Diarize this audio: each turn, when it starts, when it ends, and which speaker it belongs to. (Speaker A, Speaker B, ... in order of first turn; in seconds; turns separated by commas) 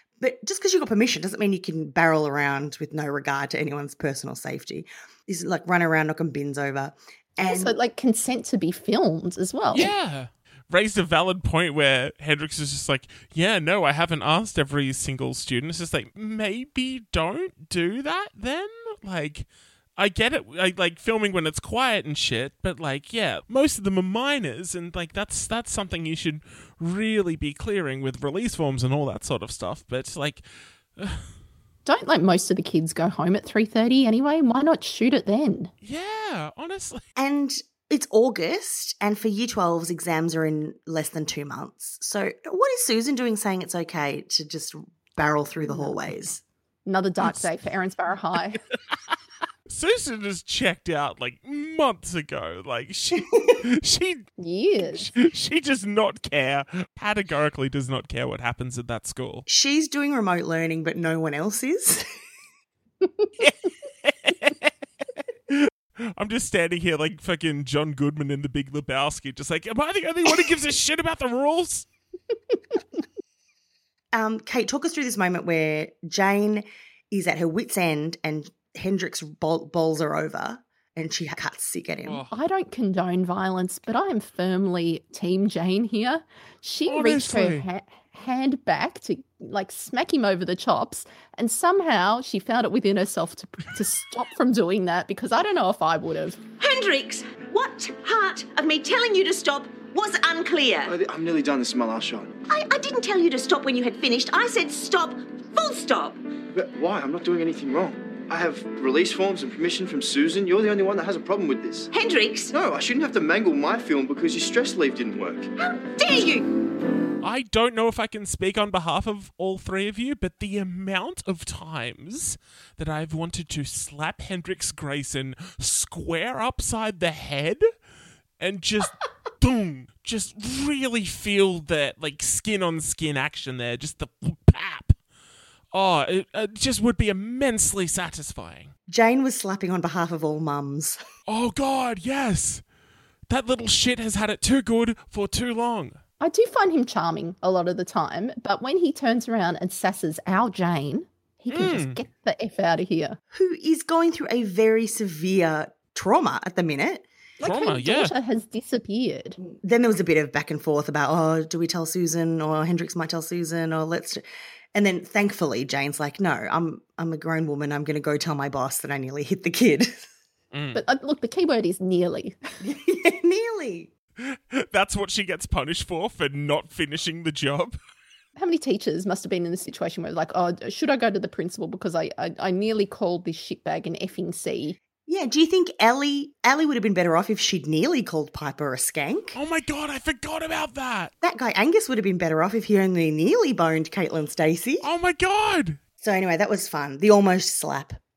Speaker A: 0.2-7.8, Speaker B: 7.4-9.9, Speaker C: 9.7-30.4, Speaker C: 31.0-31.2, Speaker B: 31.9-35.7, Speaker C: 35.8-37.0, Speaker A: 37.2-46.4, Speaker B: 45.6-46.0, Speaker B: 46.9-48.6, Speaker C: 49.7-54.3, Speaker B: 54.4-55.1, Speaker C: 54.8-59.5, Speaker A: 59.5-62.0, Speaker C: 63.4-64.7, Speaker C: 65.5-71.9, Speaker A: 74.1-82.2, Speaker C: 82.0-82.3, Speaker B: 82.3-96.4, Speaker C: 86.9-87.6, Speaker D: 98.5-100.8, Speaker E: 100.8-102.4, Speaker E: 106.5-111.9, Speaker E: 112.5-115.5, Speaker C: 117.2-127.6, Speaker C: 128.4-134.9, Speaker C: 135.7-138.7, Speaker A: 138.9-141.0, Speaker C: 141.3-142.6, Speaker C: 143.3-146.0, Speaker B: 146.2-153.2, Speaker C: 151.5-152.0, Speaker A: 153.3-157.1, Speaker B: 157.4-159.4, Speaker C: 157.4-158.1, Speaker A: 159.6-164.2, Speaker A: 164.7-170.1, Speaker C: 170.5-170.8, Speaker B: 170.7-172.4, Speaker A: 172.6-173.9, Speaker C: 174.2-177.8, Speaker B: 178.3-184.8, Speaker A: 185.1-189.3, Speaker C: 189.3-191.1, Speaker A: 191.2-194.9, Speaker C: 194.8-195.8, Speaker A: 196.0-198.0